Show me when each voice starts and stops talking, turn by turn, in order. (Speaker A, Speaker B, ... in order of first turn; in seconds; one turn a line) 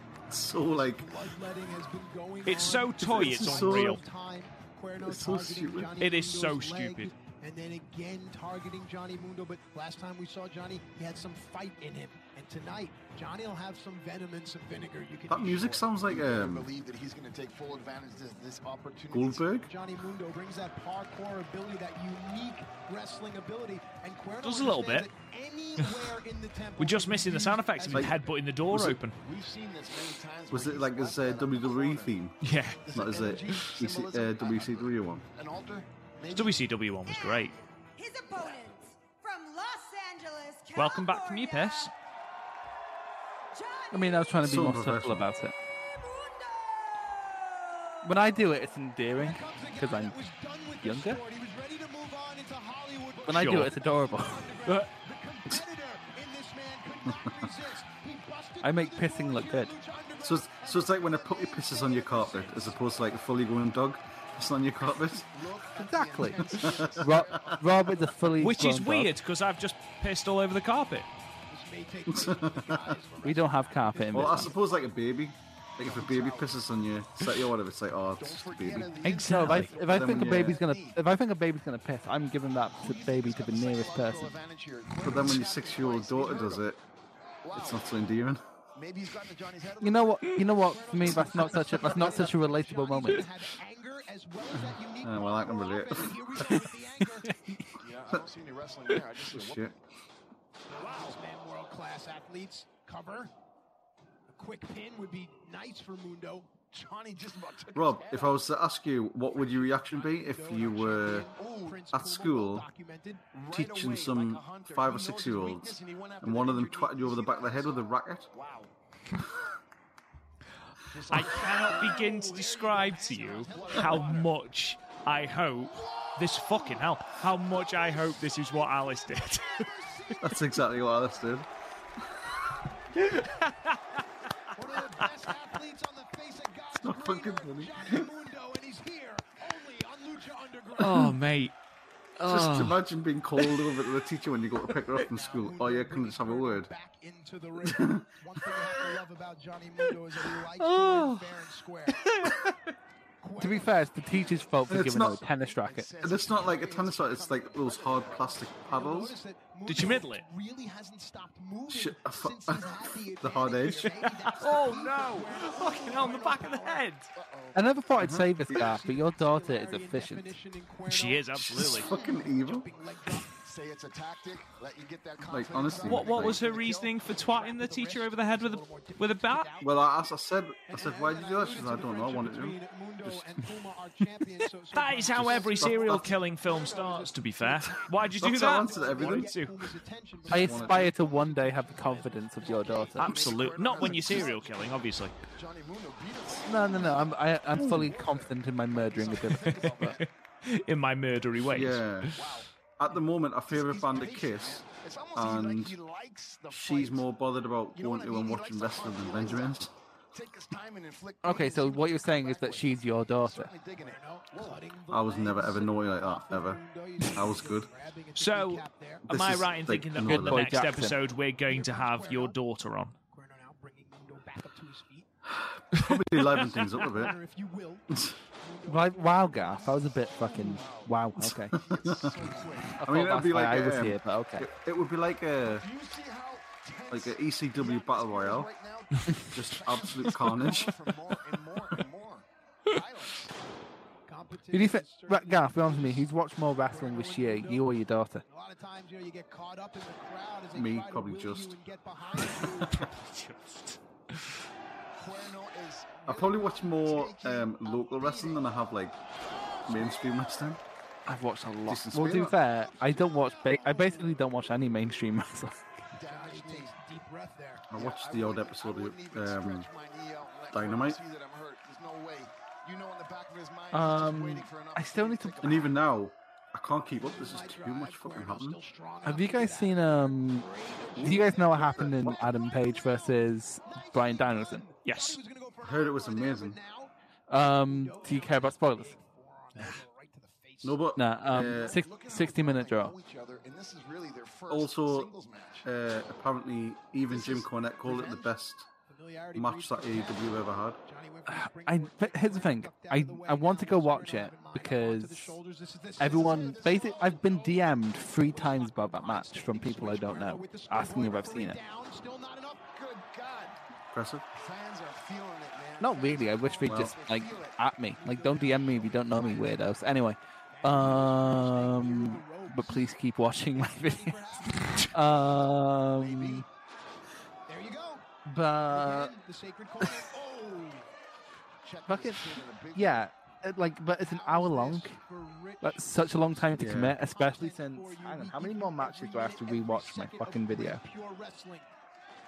Speaker A: 0.3-1.1
Speaker B: 0.9-15.6
Speaker C: 2.5-4.0
Speaker A: 3.0-4.0
Speaker A: 5.0-5.9
Speaker C: 6.0-7.1
Speaker A: 15.3-16.7
Speaker D: 15.4-19.6
Speaker A: 19.1-19.7
Speaker B: 19.6-28.3
Speaker C: 24.4-25.1
Speaker C: 25.8-26.1
Speaker C: 26.8-29.2
Speaker A: 28.7-29.0
Speaker D: 29.2-32.1
Speaker A: 30.5-35.2
Speaker C: 32.4-32.9
Speaker D: 32.8-36.7
Speaker C: 36.3-37.6
Speaker E: 37.0-41.9
Speaker D: 38.4-38.7
Speaker C: 40.8-41.9
Speaker E: 43.5-44.5
Speaker F: 43.9-45.6
Speaker A: 44.4-45.3
Speaker E: 45.8-48.6
Speaker F: 48.0-50.2
Speaker B: 49.2-62.8
Speaker F: 50.8-51.2
Speaker F: 53.2-54.6
Speaker C: 53.3-53.7
Speaker F: 58.6-59.7
Speaker A: 60.2-65.3
Speaker D: 65.3-68.3
Speaker F: 65.8-69.1
Speaker A: 66.4-67.6
Speaker C: 68.4-71.1
Speaker B: 71.5-74.6
Speaker A: 72.1-73.0
Speaker F: 73.2-74.5
Speaker A: 74.1-79.0
Speaker D: 75.8-76.5
Speaker D: 78.2-81.0
Speaker C: 79.0-79.7
Speaker F: 79.0-84.3
Speaker A: 79.8-80.7
Speaker D: 82.7-86.6
Speaker A: 85.0-86.8
Speaker D: 87.4-87.8
Speaker A: 87.5-88.4
Speaker D: 88.8-91.9
Speaker F: 89.8-93.3
Speaker B: 90.3-97.4
Speaker A: 95.0-96.6
Speaker F: 97.3-97.6
Speaker D: 97.8-99.7
Speaker A: 99.3-99.7
Speaker D: 100.7-101.2
Speaker B: 100.7-103.3
Speaker B: 104.3-106.5
Speaker D: 106.7-108.5
Speaker A: 107.8-111.3
Speaker B: 109.9-113.2
Speaker D: 111.3-111.9
Speaker A: 111.9-112.7
Speaker D: 113.3-118.7
Speaker A: 113.5-118.3
Speaker D: 120.9-122.3
Speaker C: 121.1-129.7
Speaker B: 121.3-124.3
Speaker D: 123.5-124.3
Speaker D: 125.7-126.8
Speaker B: 129.3-130.5
Speaker A: 130.2-131.5
Speaker C: 133.0-134.0
Speaker B: 134.6-141.1
Speaker D: 134.8-135.1
Speaker A: 136.7-138.1
Speaker C: 140.8-141.6
Speaker C: 142.2-142.8
Speaker A: 142.2-146.7
Speaker B: 145.3-152.1
Speaker A: 147.6-148.1
Speaker C: 150.6-151.2
Speaker C: 151.9-152.4
Speaker B: 153.2-154.3
Speaker F: 153.4-155.9
Speaker A: 154.7-155.3
Speaker D: 155.4-158.6
Speaker A: 156.0-159.2
Speaker B: 158.7-166.9
Speaker C: 159.7-160.2
Speaker A: 161.7-164.1
Speaker C: 163.6-167.1
Speaker D: 167.1-168.0
Speaker F: 167.5-170.3
Speaker A: 168.0-168.8
Speaker B: 168.5-173.4
Speaker C: 170.9-171.9
Speaker A: 171.4-172.7
Speaker D: 171.9-172.3
Speaker D: 173.3-177.1
Speaker A: 175.3-176.5
Speaker C: 175.9-179.5
Speaker B: 177.0-179.8
Speaker A: 179.6-183.2
Speaker B: 180.7-193.2
Speaker C: 184.7-189.6
Speaker A: 185.1-186.1
Speaker D: 186.4-189.2
Speaker A: 188.2-189.3
Speaker F: 190.3-193.4
Speaker A: 190.3-190.9
Speaker D: 190.4-200.1
Speaker C: 193.0-195.2
Speaker B: 193.8-194.3
Speaker F: 196.4-200.0
Speaker C: 199.6-202.0
Speaker A: 201.4-202.2
Speaker D: 202.1-202.5
Speaker A: 202.8-205.8
Speaker D: 203.5-207.1
Speaker A: 206.5-209.7
Speaker D: 207.7-214.7
Speaker F: 211.2-213.5
Speaker B: 213.8-219.1
Speaker A: 214.9-216.6
Speaker A: 217.1-217.7
Speaker C: 218.2-222.9
Speaker A: 219.1-220.7
Speaker F: 220.0-221.0
Speaker B: 221.4-222.4
Speaker B: 223.1-225.1
Speaker A: 225.3-227.2
Speaker C: 226.4-226.8
Speaker B: 226.7-229.9
Speaker F: 228.7-231.6
Speaker D: 229.4-231.0
Speaker A: 231.2-232.2
Speaker D: 231.5-232.8
Speaker F: 232.8-234.5
Speaker A: 232.8-235.7
Speaker D: 235.4-243.3
Speaker A: 236.9-238.5
Speaker A: 239.1-240.8
Speaker B: 244.1-247.7
Speaker F: 244.5-248.2
Speaker B: 248.2-252.9
Speaker A: 250.5-251.6
Speaker A: 252.4-252.8
Speaker C: 252.7-254.3
Speaker D: 254.9-258.5
Speaker A: 256.1-259.0
Speaker A: 259.7-260.6
Speaker F: 261.1-265.7
Speaker A: 261.7-262.4
Speaker D: 263.5-264.2
Speaker D: 265.9-266.8
Speaker B: 266.1-267.7
Speaker A: 267.7-269.7
Speaker D: 267.7-275.8
Speaker A: 270.5-271.0
Speaker F: 273.7-275.6
Speaker A: 275.4-278.6
Speaker B: 276.9-291.0
Speaker F: 279.1-280.5
Speaker F: 281.0-284.7
Speaker D: 281.4-283.1
Speaker D: 283.7-284.4
Speaker C: 284.9-285.2
Speaker A: 285.6-286.6
Speaker F: 287.3-288.9
Speaker A: 290.6-291.8
Speaker F: 291.0-293.0
Speaker D: 291.4-295.7
Speaker A: 294.5-295.1
Speaker A: 295.6-298.7
Speaker D: 297.1-298.2
Speaker B: 298.9-306.9
Speaker A: 299.3-300.8
Speaker F: 301.3-305.4
Speaker F: 306.0-311.6
Speaker D: 306.0-308.6
Speaker B: 308.0-312.6
Speaker D: 312.7-313.6
Speaker A: 313.9-314.2
Speaker D: 314.3-317.6
Speaker F: 315.8-326.5
Speaker A: 316.6-317.0
Speaker B: 317.9-319.7
Speaker D: 318.5-319.6
Speaker B: 320.5-322.9
Speaker B: 323.5-325.2
Speaker D: 325.9-326.5
Speaker B: 327.5-328.1
Speaker F: 328.3-329.1
Speaker B: 328.7-330.9
Speaker D: 331.6-333.1
Speaker F: 331.9-335.0
Speaker B: 334.0-341.7
Speaker F: 335.6-340.8
Speaker A: 336.6-337.0